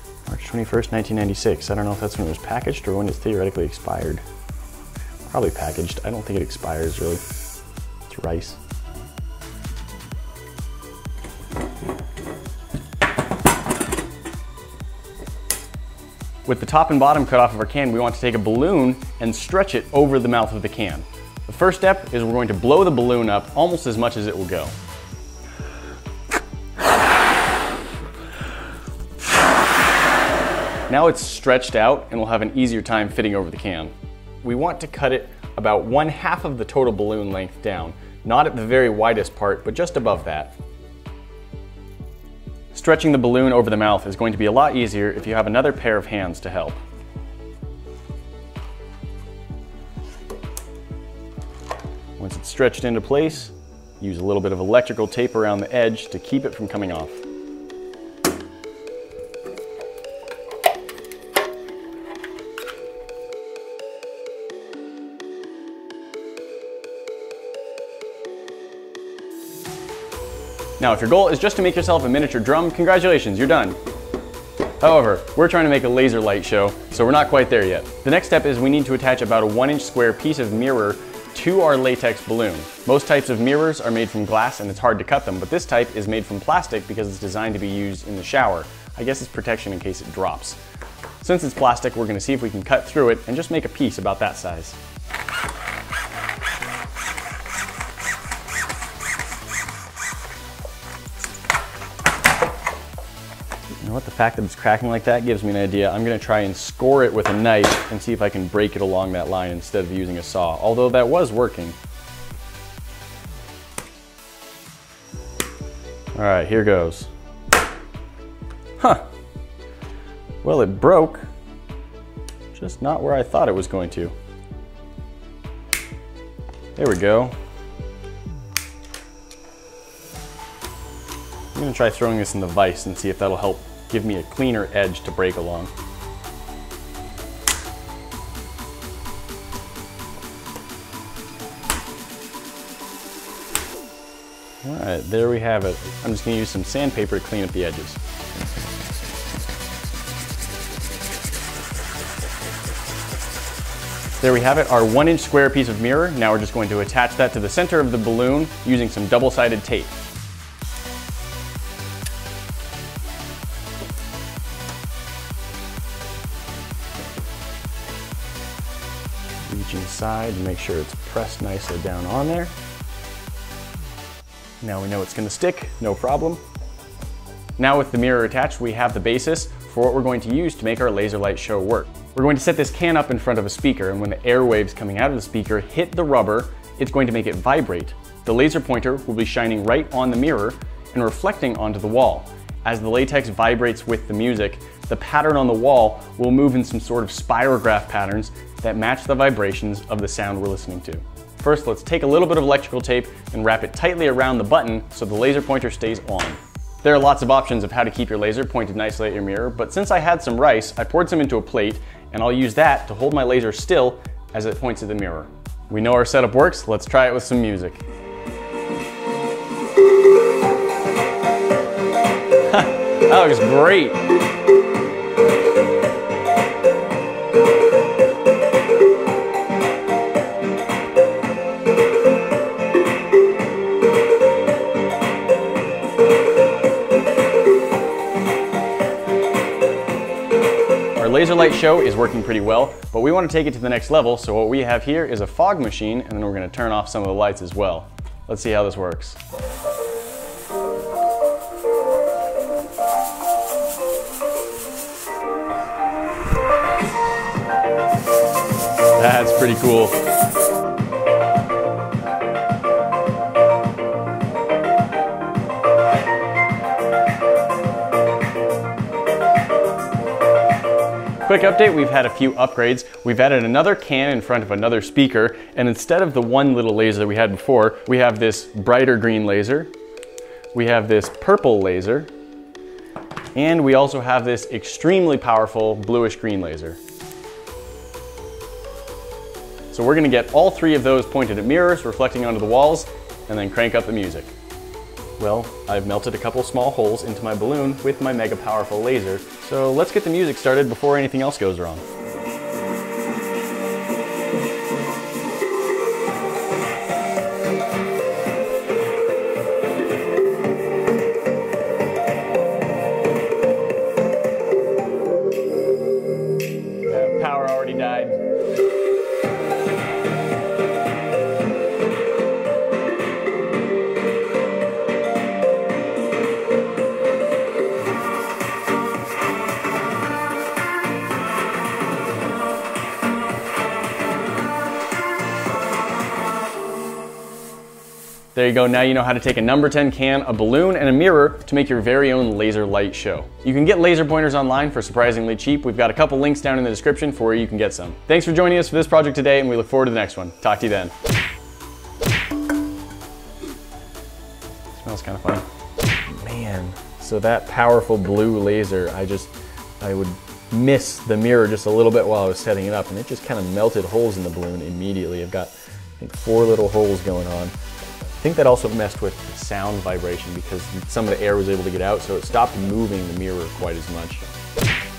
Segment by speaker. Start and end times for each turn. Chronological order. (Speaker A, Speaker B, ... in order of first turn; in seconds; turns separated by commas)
Speaker A: 0.3-4.2, Speaker A: 5.3-7.2, Speaker A: 8.1-8.6, Speaker A: 16.4-24.7, Speaker A: 30.9-33.9, Speaker A: 34.4-40.5, Speaker A: 42.7-46.8, Speaker A: 52.2-57.2, Speaker A: 70.8-73.8, Speaker A: 74.8-90.6, Speaker A: 91.2-94.8, Speaker A: 103.8-111.8, Speaker A: 116.1-117.1, Speaker A: 118.8-119.0, Speaker A: 120.4-121.3, Speaker A: 122.5-124.1, Speaker A: 126.8-127.3, Speaker A: 131.5-135.7, Speaker A: 144.6-148.0, Speaker A: 154.2-159.9, Speaker A: 169.4-172.5, Speaker A: 174.6-176.4, Speaker A: 177.6-217.8, Speaker A: 222.5-224.0, Speaker A: 240.9-249.2, Speaker A: 259.0-260.0, Speaker A: 271.2-279.7, Speaker A: 280.5-282.1, Speaker A: 283.3-286.8, Speaker A: 289.7-294.3, Speaker A: 295.2-301.8, Speaker A: 316.9-318.2, Speaker A: 338.3-350.9, Speaker A: 354.7-355.4, Speaker A: 356.1-367.5, Speaker A: 368.2-374.2